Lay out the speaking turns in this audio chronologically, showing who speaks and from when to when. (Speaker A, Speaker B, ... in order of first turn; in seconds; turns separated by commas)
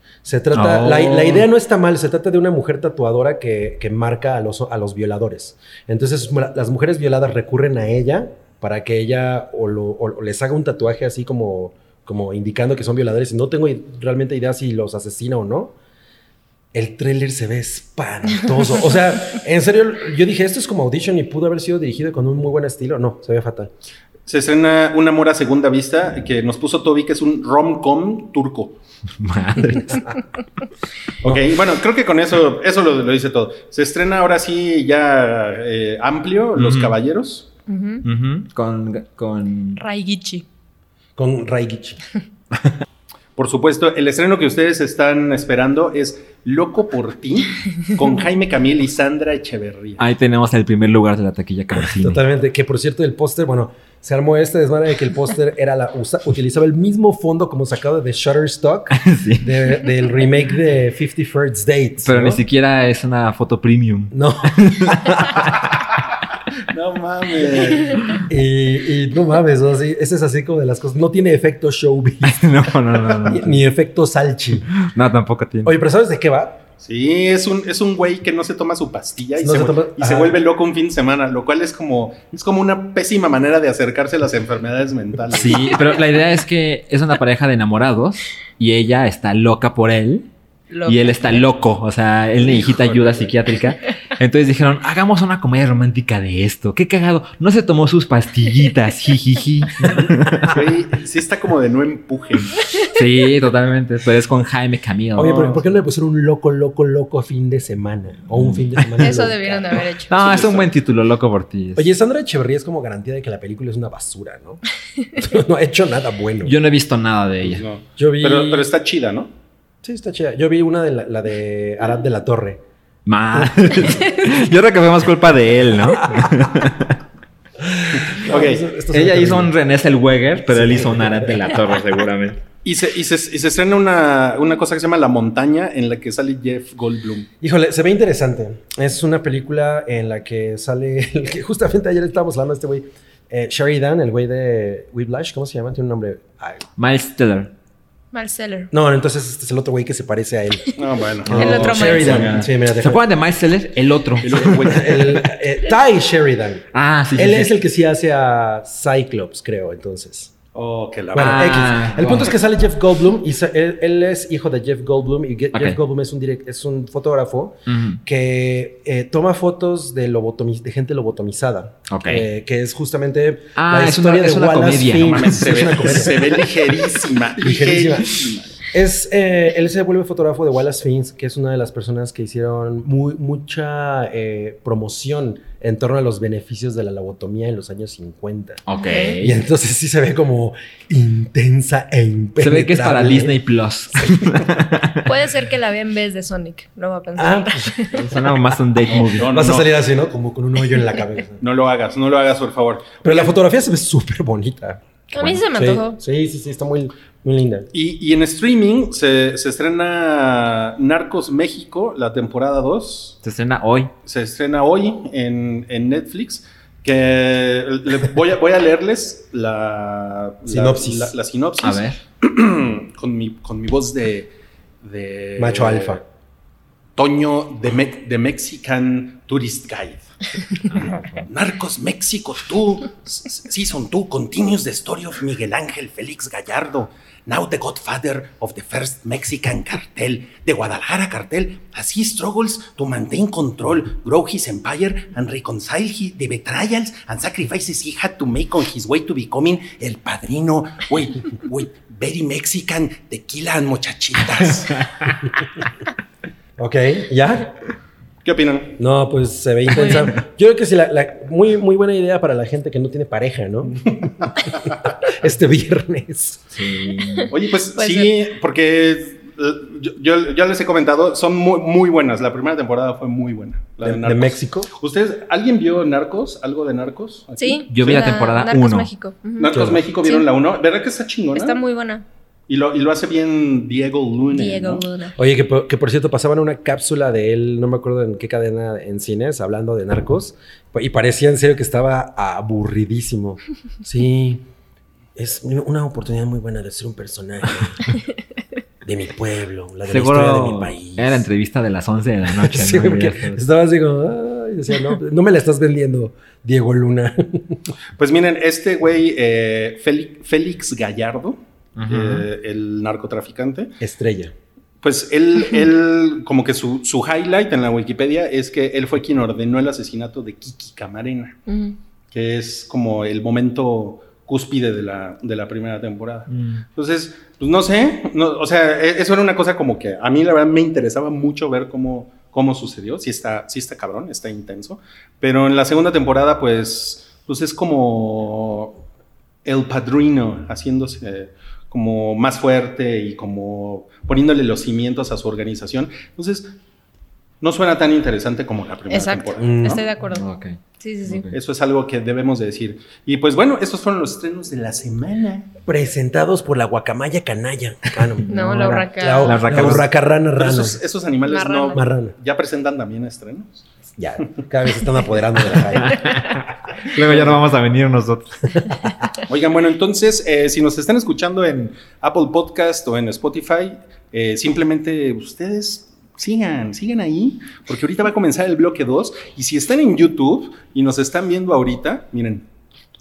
Speaker A: 0.2-15.7, Speaker B: 0.5-1.4, Speaker A: 16.7-23.7, Speaker C: 24.3-28.8, Speaker B: 29.2-30.2, Speaker C: 31.2-37.5, Speaker B: 36.5-36.9, Speaker D: 37.7-38.0, Speaker B: 38.0-39.8, Speaker D: 39.8-40.4, Speaker A: 41.1-42.0, Speaker C: 43.4-50.0, Speaker B: 50.0-52.2, Speaker A: 51.7-62.4, Speaker B: 58.9-59.7, Speaker B: 62.0-65.6, Speaker A: 64.1-65.4, Speaker C: 66.7-68.2, Speaker A: 67.6-72.7, Speaker B: 72.2-73.6, Speaker A: 73.2-74.7, Speaker B: 74.8-75.7, Speaker A: 75.6-76.6, Speaker C: 76.8-85.9, Speaker A: 79.4-80.4, Speaker B: 85.3-90.2, Speaker D: 90.7-91.4, Speaker B: 90.9-100.6, Speaker C: 92.4-93.3, Speaker C: 100.4-102.6, Speaker B: 102.8-105.5, Speaker A: 105.2-109.8, Speaker C: 105.2-105.6, Speaker B: 108.4-109.1, Speaker D: 109.0-110.3, Speaker B: 110.1-111.8, Speaker C: 110.1-110.7, Speaker A: 111.7-114.6, Speaker A: 115.2-116.5, Speaker B: 116.4-117.6, Speaker C: 117.4-119.3, Speaker A: 118.0-118.7, Speaker A: 119.8-122.6, Speaker B: 123.0-127.0, Speaker A: 127.6-129.5, Speaker C: 128.1-128.6, Speaker B: 128.9-132.4, Speaker A: 130.5-131.5, Speaker C: 132.6-137.3, Speaker A: 137.4-146.7, Speaker B: 146.8-147.5, Speaker D: 148.1-148.7, Speaker A: 148.7-153.0, Speaker C: 150.8-152.1, Speaker B: 151.2-154.8, Speaker D: 151.3-152.3, Speaker C: 154.2-155.2, Speaker A: 154.4-160.3, Speaker B: 156.7-157.5, Speaker C: 160.5-161.7, Speaker A: 161.1-176.7, Speaker B: 161.2-162.3, Speaker B: 167.7-168.0, Speaker B: 171.9-172.2, Speaker B: 173.6-176.0, Speaker C: 175.0-178.5, Speaker A: 177.4-188.6, Speaker B: 188.7-189.4, Speaker D: 188.8-189.2, Speaker A: 189.2-193.4, Speaker B: 192.4-195.1, Speaker A: 194.0-194.3, Speaker D: 195.0-198.0, Speaker A: 197.2-197.9, Speaker B: 197.9-199.3, Speaker C: 198.9-199.7, Speaker A: 199.2-201.4, Speaker C: 201.4-203.3, Speaker A: 203.0-207.7, Speaker D: 205.1-206.0, Speaker C: 207.7-213.2, Speaker B: 213.2-213.9, Speaker C: 214.0-224.3, Speaker A: 220.4-221.1, Speaker B: 221.6-222.0, Speaker C: 224.8-226.0, Speaker A: 225.4-226.0, Speaker C: 227.0-254.9, Speaker B: 230.7-231.2, Speaker A: 256.6-257.5, Speaker C: 258.2-258.8, Speaker A: 258.8-266.5, Speaker D: 259.7-260.1, Speaker B: 266.5-267.3, Speaker D: 267.0-268.1, Speaker C: 267.3-278.1, Speaker A: 273.8-274.7, Speaker D: 277.4-280.3, Speaker B: 277.7-278.9, Speaker C: 279.4-281.6, Speaker A: 279.5-279.8, Speaker D: 281.3-282.0, Speaker C: 282.5-284.8, Speaker D: 284.3-285.1, Speaker A: 285.2-294.4, Speaker A: 295.1-297.9, Speaker A: 298.8-301.2, Speaker B: 299.9-303.4, Speaker A: 302.3-307.7, Speaker C: 308.0-313.7, Speaker B: 311.8-312.3, Speaker A: 313.8-314.3, Speaker C: 314.8-321.4, Speaker D: 321.5-321.8, Speaker C: 322.1-338.8, Speaker B: 326.3-326.6, Speaker C: 339.4-346.5, Speaker C: 347.4-349.8, Speaker D: 348.9-350.2, Speaker A: 349.4-349.8, Speaker B: 350.1-351.4, Speaker D: 350.8-351.3, Speaker C: 351.3-355.5, Speaker A: 355.6-360.8, Speaker D: 358.3-359.4, Speaker B: 359.2-359.9, Speaker C: 360.4-363.7, Speaker D: 361.3-361.8, Speaker A: 361.7-362.1, Speaker A: 364.0-366.2, Speaker B: 365.7-368.8, Speaker C: 366.9-367.4, Speaker C: 369.3-382.4